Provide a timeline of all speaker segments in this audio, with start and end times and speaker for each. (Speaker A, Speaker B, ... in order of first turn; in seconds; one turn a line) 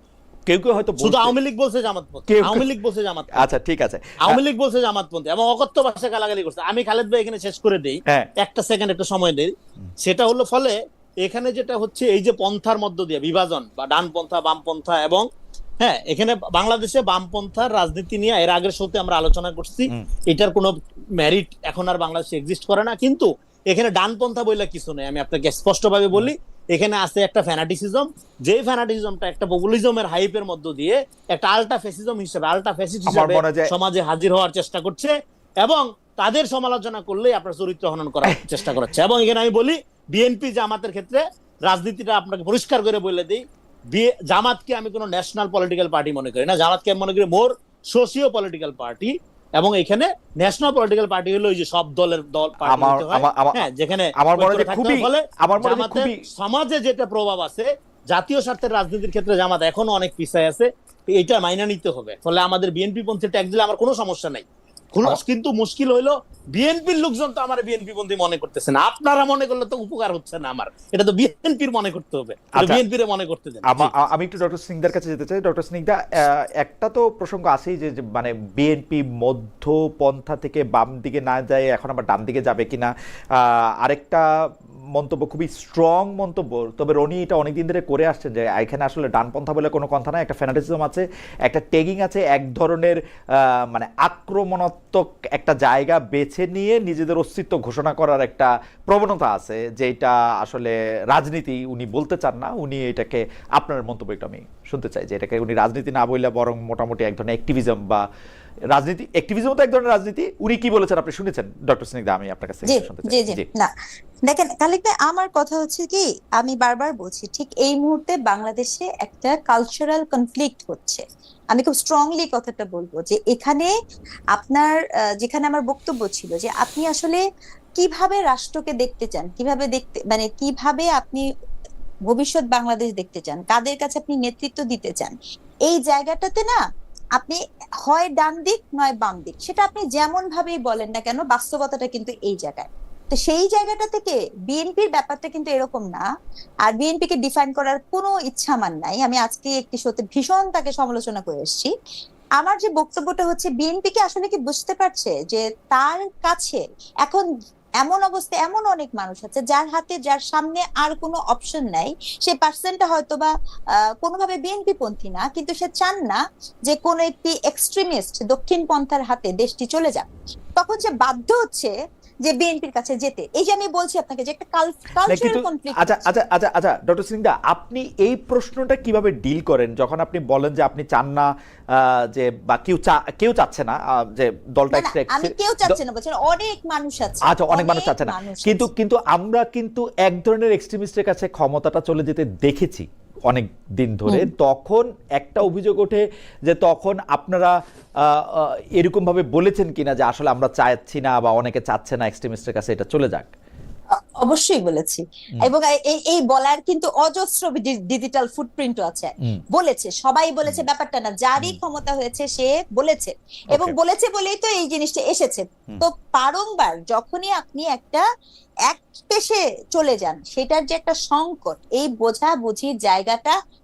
Speaker A: 0.5-1.3
Speaker B: 1.0-3.5
Speaker A: 2.3-2.6
Speaker A: 3.4-4.4
Speaker B: 4.2-15.3
Speaker B: 15.8-73.9
Speaker A: 33.1-33.7
Speaker A: 38.2-38.5
Speaker A: 52.6-56.2
Speaker A: 72.5-72.8
Speaker A: 73.7-84.2
Speaker A: 85.0-108.0
Speaker A: 108.7-113.5
Speaker C: 112.6-113.7
Speaker C: 114.3-123.7
Speaker C: 124.3-127.2
Speaker C: 127.8-131.2
Speaker C: 132.1-135.1
Speaker C: 135.7-136.6
Speaker C: 137.2-146.1
Speaker C: 146.7-151.7
Speaker C: 152.4-157.3
Speaker C: 157.8-163.3
Speaker C: 164.0-171.7
Speaker C: 172.2-176.1
Speaker A: 175.0-185.8
Speaker C: 184.7-188.7
Speaker A: 187.3-203.3
Speaker C: 204.2-218.0
Speaker C: 218.7-223.4